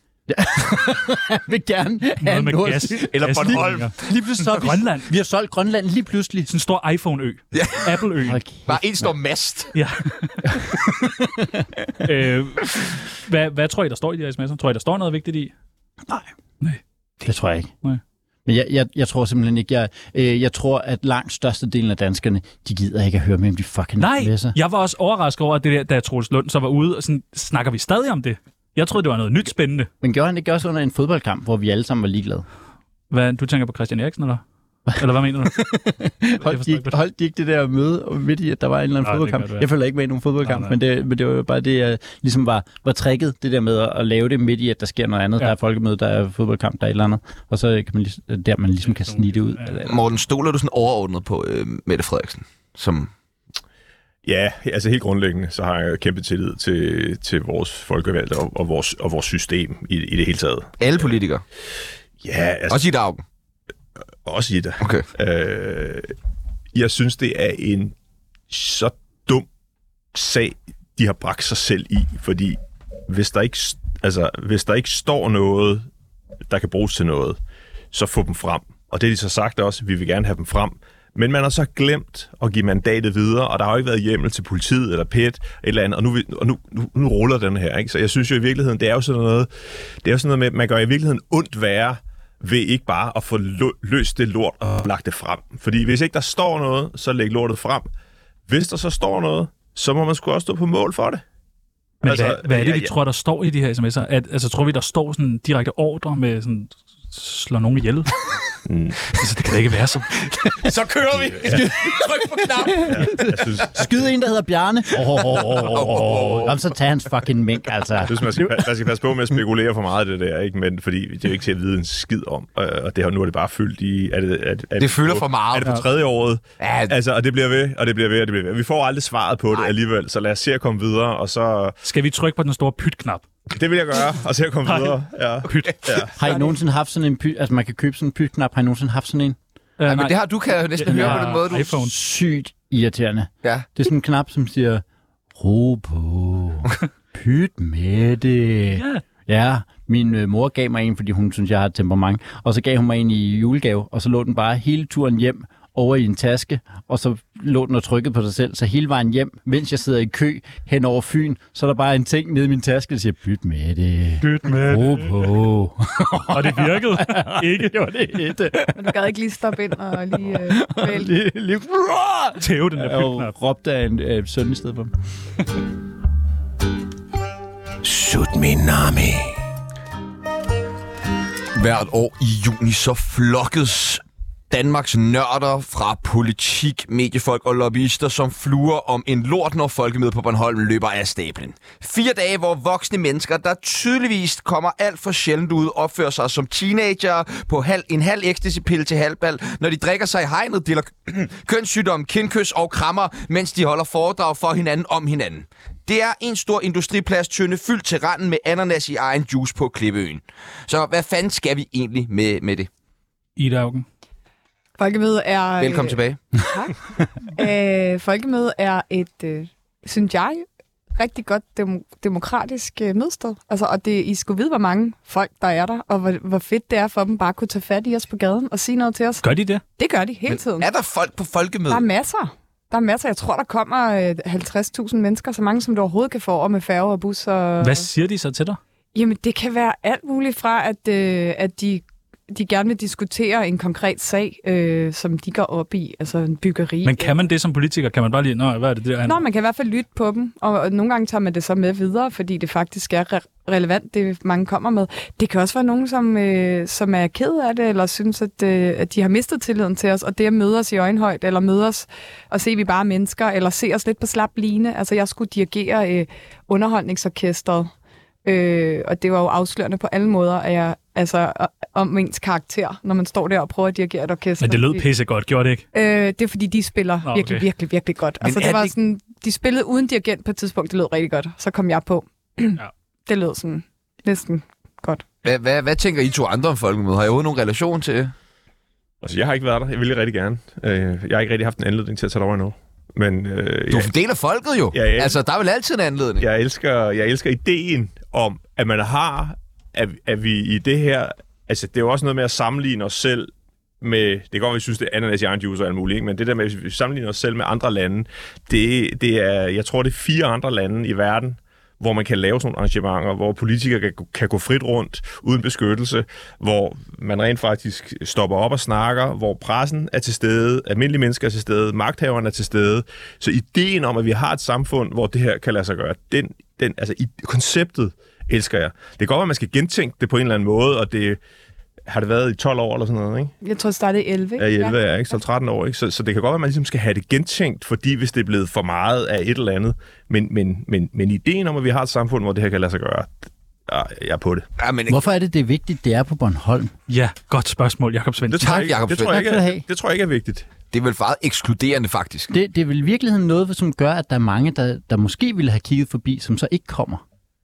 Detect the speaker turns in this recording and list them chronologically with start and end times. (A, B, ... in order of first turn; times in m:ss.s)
0:00.3-0:06.5 A
0:02.2-0:05.1 B
0:03.1-0:04.2 C
0:06.5-0:08.4 B
0:07.5-0:08.0 C
0:08.2-0:09.1 A
0:08.7-0:09.7 C
0:09.7-0:10.6 B
0:10.5-0:11.7 A
0:12.0-0:15.5 B
0:17.2-0:17.7 A
0:18.5-0:24.6 A
0:24.0-0:29.9 B
0:30.0-0:32.5 A
0:33.1-0:35.8 B
0:35.4-0:50.0 A
0:36.4-0:37.0 B
0:39.0-0:39.7 B
0:40.4-0:40.8 B
0:48.9-0:49.8 B
0:49.9-0:53.1 C
0:54.2-1:01.1 D
1:00.8-1:01.4 C
1:02.2-1:02.9 D
1:02.7-1:03.2 C
1:04.2-1:06.1 D
1:04.8-1:05.1 C
1:06.7-1:08.0 D
1:08.5-1:09.5 D
1:10.1-1:15.9 D
1:16.5-1:17.4 D
1:17.9-1:29.5 D
1:30.0-1:37.9 D
1:38.5-1:41.2 D
1:42.0-1:48.2 B
1:42.0-1:42.9 D
1:48.7-1:49.0 D
1:49.1-1:50.5 B
1:50.3-1:53.7 C
1:52.6-1:58.7 A
1:52.9-1:54.0 D
1:55.2-1:56.6 C
1:58.0-2:11.8 D
2:04.8-2:05.8 C
2:06.6-2:06.9 C
2:11.8-2:13.2 B
2:13.5-2:16.1 D
2:14.6-2:15.9 B
2:16.2-2:19.4 A
2:19.8-2:21.9 B
2:19.9-2:21.8 C
2:20.9-2:24.8 A
2:23.4-2:23.7 C
2:25.4-2:49.0 A
2:28.8-2:29.0 B
2:44.2-2:45.3 B
2:46.3-2:47.9 B
2:48.8-2:51.1 E
2:50.1-2:54.9 A
2:52.4-2:53.3 B
2:57.9-2:59.2 A
3:01.6-3:32.7 C
3:33.4-3:33.9 B
3:34.8-3:36.7 E
3:35.6-3:36.2 C
3:37.3-3:49.2 E
3:49.2-3:49.6 B
3:49.8-3:50.7 E
3:50.3-3:51.9 C
3:51.7-3:57.9 E
3:57.6-3:58.6 B
3:59.0-4:07.2 E
4:06.8-4:09.2 B
4:09.0-4:27.7 E
4:28.2-4:34.9 E
4:34.4-4:35.6 B
4:35.7-4:45.0 E
4:37.1-4:37.4 B
4:38.2-4:38.7 C
4:45.2-4:48.1 C
4:49.0-4:53.9 D
4:53.7-4:56.3 C
4:54.7-4:55.2 D
4:56.2-5:31.2 D
5:31.9-5:33.3 D
5:33.4-5:34.8 E
5:34.4-5:44.5 D
5:44.6-5:45.0 C
5:44.9-5:46.7 A
5:46.9-5:48.7 B
5:48.3-5:50.5 D
5:48.4-5:49.3 C
5:49.0-5:49.6 A
5:50.7-5:52.3 C
5:52.3-5:57.0 A